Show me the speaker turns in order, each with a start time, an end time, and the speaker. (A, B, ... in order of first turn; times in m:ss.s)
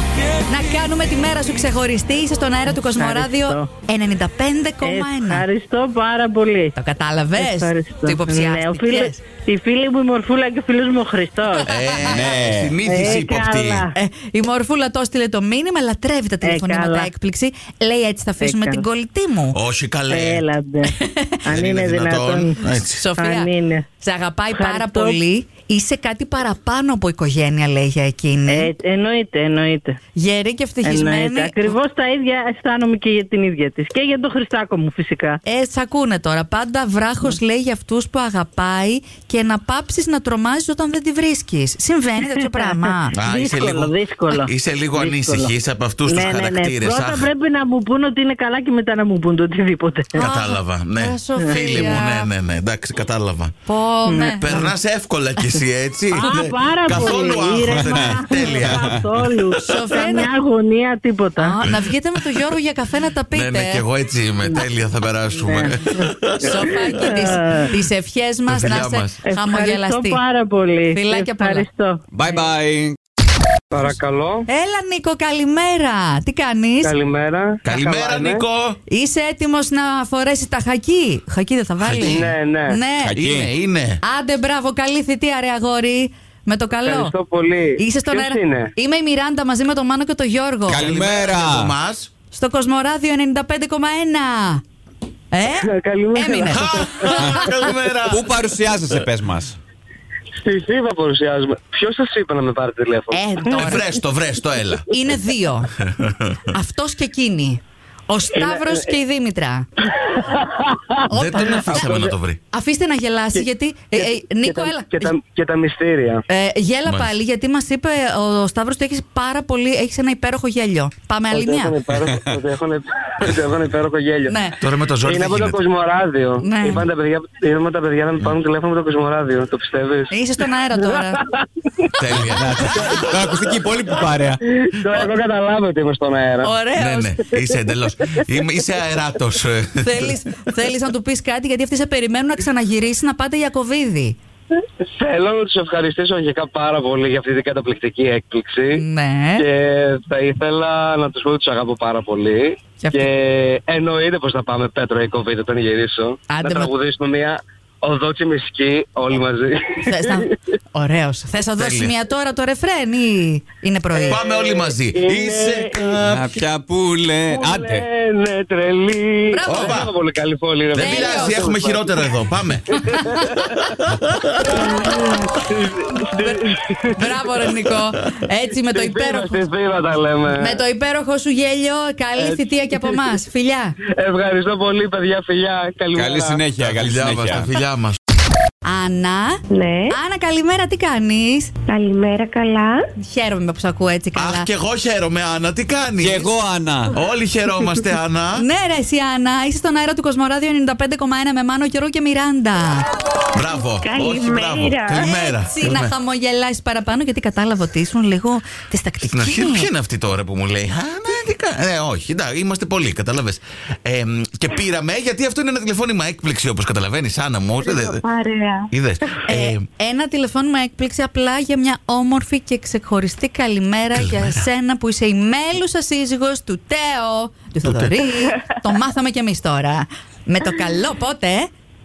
0:00.5-0:05.4 A
0:02.8-0:03.7 B
0:04.8-0:06.8 B
0:06.8-0:09.3 A
0:07.4-0:11.7 B
0:11.7-0:13.9 C
0:12.1-0:12.8 D
0:12.8-0:13.9 B
0:13.9-0:19.6 A
0:16.4-0:17.1 B
0:18.4-0:18.8 B
0:19.5-0:20.4 C
0:20.1-0:23.9 B
0:20.9-0:21.4 A
0:21.5-0:23.0 C
0:23.0-0:28.7 A
0:24.5-0:25.2 B
0:28.5-0:30.0 B
0:30.2-0:31.8 A
0:30.8-0:35.4 B
0:35.5-0:43.1 A
0:42.5-0:45.5 B
0:43.1-0:47.3 C
0:46.1-0:50.3 B
0:50.2-0:53.5 C
0:50.2-0:52.3 A
0:51.4-0:52.0 B
0:53.7-0:54.5 A
0:54.0-0:54.7 B
0:54.2-0:59.8 C
0:56.2-1:01.6 B
0:57.7-0:59.1 D
0:59.7-1:00.3 A
1:01.4-1:03.8 A
1:03.3-1:07.3 C
1:05.4-1:05.8 B
1:06.4-1:10.2 A
1:07.0-1:07.7 B
1:08.5-1:09.2 C
1:09.2-1:12.0 B
1:10.9-1:11.7 A
1:12.1-1:13.0 D
1:13.7-1:14.5 E
1:14.5-1:17.0 A
1:16.8-1:18.4 E
1:17.6-1:18.8 C
1:18.9-1:23.1 A
1:21.8-1:22.3 C
1:22.0-1:22.8 E
1:23.0-1:23.5 D
1:23.2-1:24.0 C
1:24.0-1:27.1 A
1:26.9-1:28.7 E
1:27.8-1:30.9 A
1:30.7-1:31.7 D
1:30.8-1:32.1 C
1:32.3-1:34.6 A
1:35.3-1:36.7 A
1:35.7-1:37.1 E
1:36.5-1:38.2 C
1:37.2-1:37.5 D
1:38.1-1:39.6 D
1:40.4-1:43.8 E
1:43.1-1:43.8 A
1:43.5-1:44.9 C
1:44.9-1:45.7 A
1:45.9-1:46.4 C
1:46.5-1:49.7 A
1:48.4-1:48.9 E
1:50.1-1:50.9 E
1:51.1-1:55.1 A
1:51.1-1:52.4 C
1:53.3-1:56.2 E
1:56.3-2:01.8 A
1:56.9-1:57.1 C
2:01.3-2:04.4 E
2:04.3-2:04.6 A
2:04.6-2:05.6 C
2:05.0-2:10.1 E
2:06.4-2:06.9 A
2:10.1-2:11.2 A
2:12.0-2:12.9 C
2:12.1-2:14.4 D
2:12.7-2:13.1 E
2:14.5-2:16.5 E
2:16.4-2:17.2 A
2:16.8-2:20.2 C
2:19.8-2:24.2 A
2:25.0-2:28.8 E
2:28.7-2:29.4 A
2:29.4-2:40.2 E
2:32.8-2:33.1 A
2:36.3-2:36.7 A
2:39.8-2:44.2 A
2:41.6-2:42.0 C
2:43.9-2:46.0 E
2:44.1-2:46.3 C
2:46.0-2:47.9 D
2:47.3-2:52.1 E
2:49.3-2:49.8 A
2:49.5-2:49.9 C
2:50.7-2:52.9 C
2:50.8-2:51.4 A
2:52.8-2:53.4 A
2:52.9-2:53.5 E
2:53.4-2:54.7 C
2:54.4-2:56.8 E
2:56.2-2:59.4 A
2:58.7-3:00.6 E
3:00.3-3:03.8 A
3:02.2-3:03.2 E
3:04.0-3:06.4 E
3:06.0-3:07.5 D
3:06.6-3:08.0 C
3:08.6-3:11.5 A
3:09.5-3:10.0 F
3:11.7-3:12.8 F
3:13.0-3:14.5 A
3:14.2-3:16.3 C
3:16.0-3:17.0 D
3:16.9-3:18.5 C
3:18.4-3:22.9 A
3:23.3-3:25.9 C
3:23.8-3:25.1 F
3:24.9-3:29.7 A
3:29.0-3:38.0 C
3:37.6-3:38.7 F
3:38.7-3:39.7 C
3:39.3-3:51.5 A
3:43.9-3:44.4 C
3:47.6-3:48.0 C